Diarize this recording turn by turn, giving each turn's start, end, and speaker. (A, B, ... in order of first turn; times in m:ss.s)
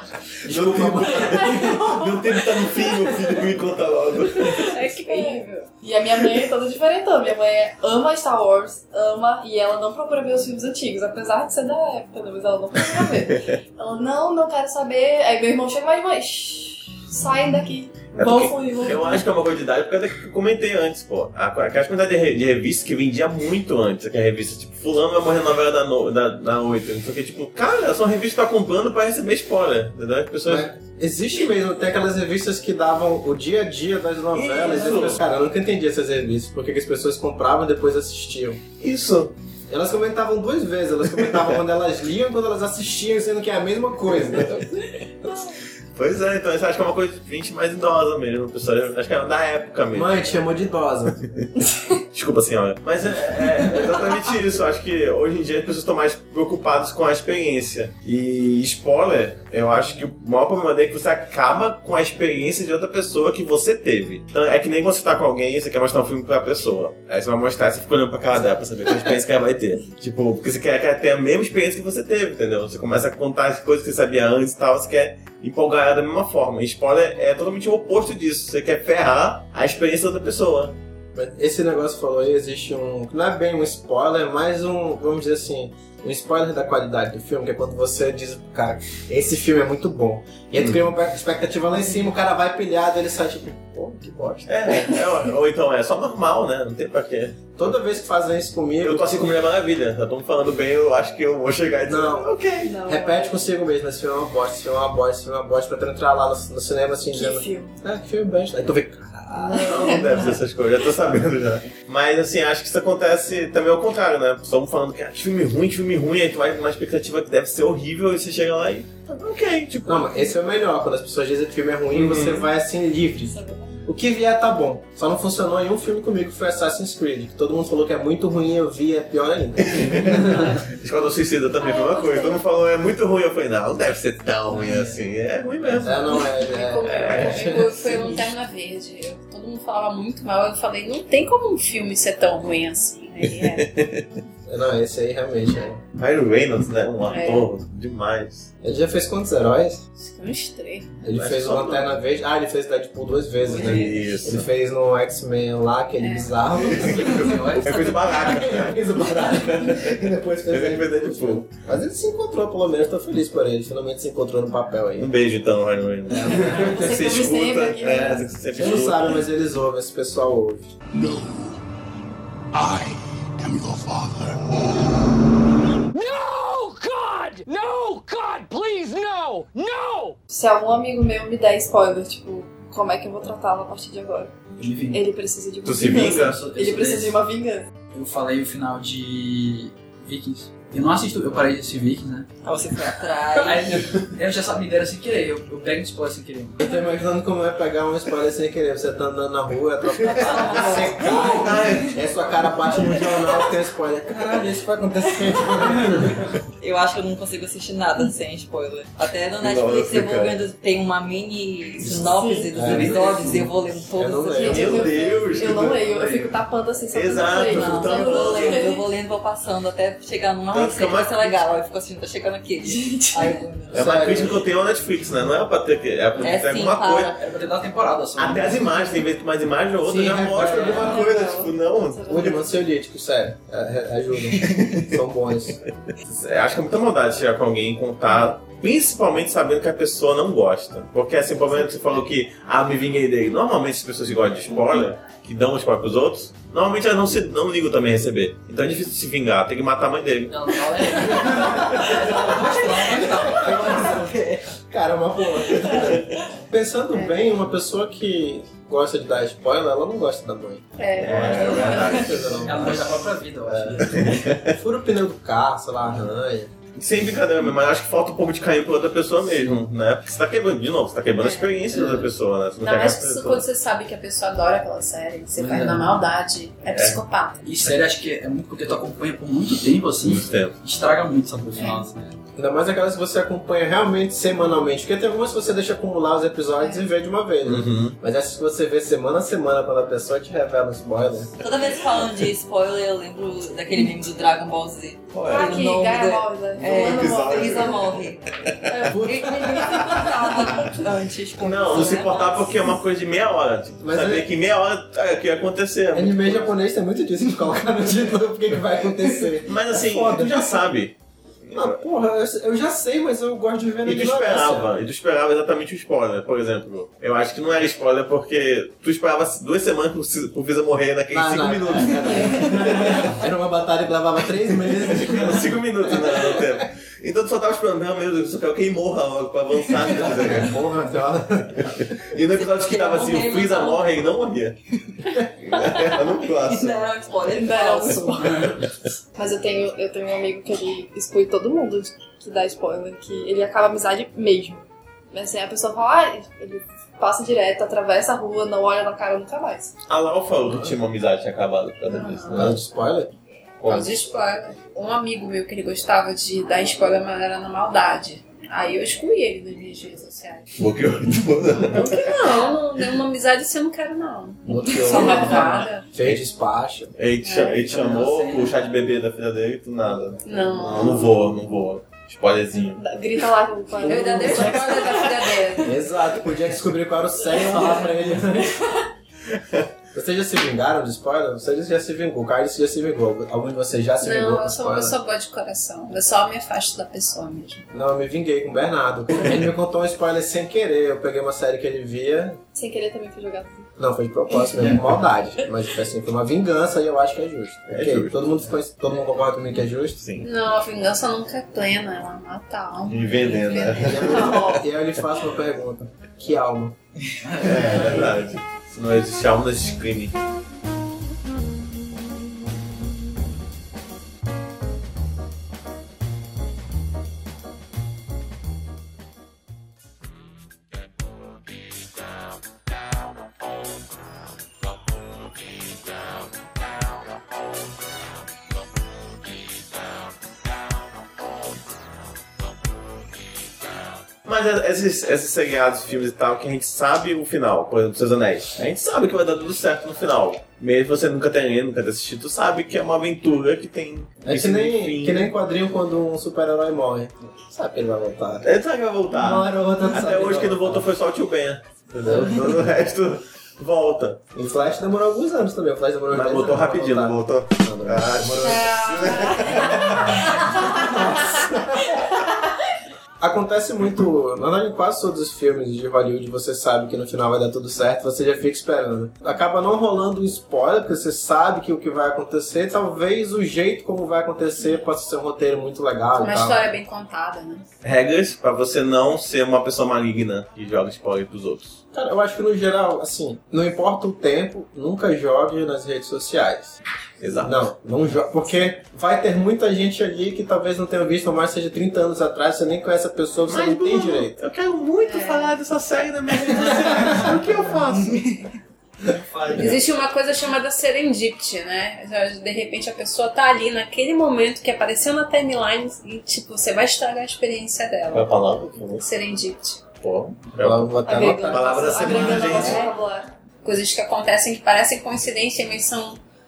0:00.4-0:04.7 A
0:00.4-0:02.0 B
0:01.6-0:02.0 C
0:04.5-0:05.7 D
0:05.1-0:19.3 C
0:18.1-0:30.7 A
0:30.4-0:38.6 B
0:34.3-0:35.2 A
0:38.8-0:39.3 A
0:39.7-0:44.9 B
0:46.0-0:50.2 A
0:49.9-0:51.2 B
0:52.1-1:20.8 A
1:21.1-1:34.8 B
1:34.4-1:37.6 A
1:37.6-1:39.3 B
1:38.8-1:42.8 A
1:41.8-1:42.3 B
1:42.6-1:43.4 C
1:42.8-1:50.0 B
1:47.1-1:47.8 C
1:49.3-2:00.3 A
1:49.6-1:50.0 C
1:59.8-2:10.6 B
2:01.9-2:02.5 A
2:03.2-2:03.7 C
2:09.6-2:16.3 A
2:11.6-2:12.3 D
2:14.5-2:15.0 E
2:15.8-2:18.1 B
2:16.2-2:23.8 D
2:16.9-2:17.5 A
2:23.2-2:24.0 A
2:24.5-2:25.8 B
2:25.9-2:28.5 A
2:27.1-2:27.5 D
2:28.6-2:29.8 B
2:30.0-2:30.9 D
2:31.0-2:45.1 B
2:31.1-2:31.9 A
2:33.5-2:34.5 A
2:36.0-2:36.4 D
2:36.6-2:41.5 A
2:36.7-2:38.2 E
2:45.0-2:49.2 A
2:46.1-2:47.0 B
2:46.6-2:48.4 C
2:48.5-2:50.6 B
2:50.9-2:51.6 F
2:52.5-2:54.8 F
2:55.9-3:00.2 G
3:00.3-3:04.3 C
3:04.6-3:05.0 E
3:04.9-3:07.7 C
3:05.6-3:06.4 A
3:05.8-3:07.2 E
3:07.9-3:12.3 E
3:12.4-3:13.8 H
3:13.3-3:16.6 E
3:16.6-3:26.3 B
3:20.0-3:21.8 H
3:20.2-3:22.1 A
3:26.6-3:34.7 H
3:29.4-3:30.4 A
3:31.9-3:33.0 C
3:32.5-3:33.0 B
3:32.6-3:33.4 E
3:33.9-3:34.9 B
3:34.3-3:38.8 C
3:34.5-3:36.1 A
3:36.9-3:38.7 A
3:37.4-3:44.1 H
3:40.5-3:41.4 A
3:42.6-3:43.5 C
3:43.2-3:44.4 B
3:43.7-3:47.1 A
3:46.2-3:47.2 H
3:47.2-3:48.8 E
3:48.2-3:52.3 A
3:49.8-3:51.1 B
3:50.5-3:52.4 C
3:52.1-3:55.6 B
3:54.4-3:54.8 A
3:56.0-4:11.9 A
4:10.3-4:14.2 E
4:11.3-4:26.5 B
4:16.9-4:17.3 D
4:20.8-4:22.0 D
4:21.0-4:22.9 A
4:22.4-4:24.2 E
4:23.8-4:24.6 A
4:26.7-4:33.4 A
4:31.2-4:31.6 D
4:31.7-4:32.1 E
4:32.6-4:37.4 D
4:35.4-4:35.9 E
4:36.7-4:37.0 A
4:37.4-4:42.1 E
4:40.0-4:40.6 A
4:41.6-4:41.8 D
4:42.4-4:51.3 B
4:46.6-4:46.8 D
4:47.4-4:48.0 A
4:51.4-4:58.2 H
4:55.1-4:55.5 A
4:55.2-4:57.9 C
4:56.6-4:57.8 A
4:58.7-5:00.9 C
4:58.9-4:59.3 B
4:59.0-5:02.5 H
5:01.4-5:06.5 A
5:03.8-5:04.3 B
5:05.9-5:10.6 B
5:09.4-5:11.8 A
5:11.5-5:14.7 B
5:13.8-5:23.1 A
5:21.1-5:26.6 B
5:24.7-5:30.6 A
5:29.9-5:31.7 B
5:31.5-5:34.6 A
5:32.4-5:33.9 H
5:35.4-5:36.9 A
5:36.4-5:38.5 H
5:37.3-5:49.7 C
5:49.9-5:52.6 A
5:50.4-5:50.8 B
5:51.9-5:52.5 D
5:52.3-5:53.1 B
5:53.6-5:54.0 A
5:53.7-6:00.5 D
6:00.6-6:02.4 A
6:01.7-6:05.8 D
6:04.5-6:06.9 B
6:07.0-6:12.9 A
6:07.2-6:07.6 D
6:07.6-6:08.6 E
6:10.2-6:11.2 D
6:12.8-6:15.7 C
6:13.8-6:15.7 D
6:13.9-6:14.4 B
6:14.2-6:14.8 H
6:15.6-6:18.6 B
6:17.6-6:17.8 C
6:19.4-6:19.6 A
6:19.9-6:25.0 B
6:24.0-6:27.6 D
6:27.7-6:32.4 B
6:32.5-6:33.7 C
6:33.8-6:40.0 B
6:34.6-6:34.9 E
6:37.7-6:38.2 A
6:40.0-6:40.3 A
6:40.2-6:44.3 D
6:42.9-6:44.5 A
6:43.8-6:46.8 B
6:44.0-6:44.6 C
6:47.2-6:48.1 E
6:47.4-6:50.2 A
7:14.2-7:25.3 A
7:24.2-7:28.5 B
7:28.4-7:34.2 A
7:29.1-7:30.9 B
7:32.0-7:32.6 B
7:34.3-7:42.0 B
7:36.1-7:41.0 A
7:43.2-7:56.6 B
7:56.2-7:57.6 D
7:57.8-8:01.8 A
8:01.9-8:06.8 B
8:07.2-8:07.6 A
8:07.4-8:14.4 B
8:13.5-8:18.4 A
8:15.0-8:15.5 D
8:19.5-8:19.8 A
8:19.5-8:28.4 D
8:28.1-8:29.0 A
8:29.0-8:29.8 D
8:30.0-8:32.9 A
8:30.6-8:32.3 B
8:31.0-8:33.3 C
8:31.8-8:32.9 D
8:33.6-8:36.2 D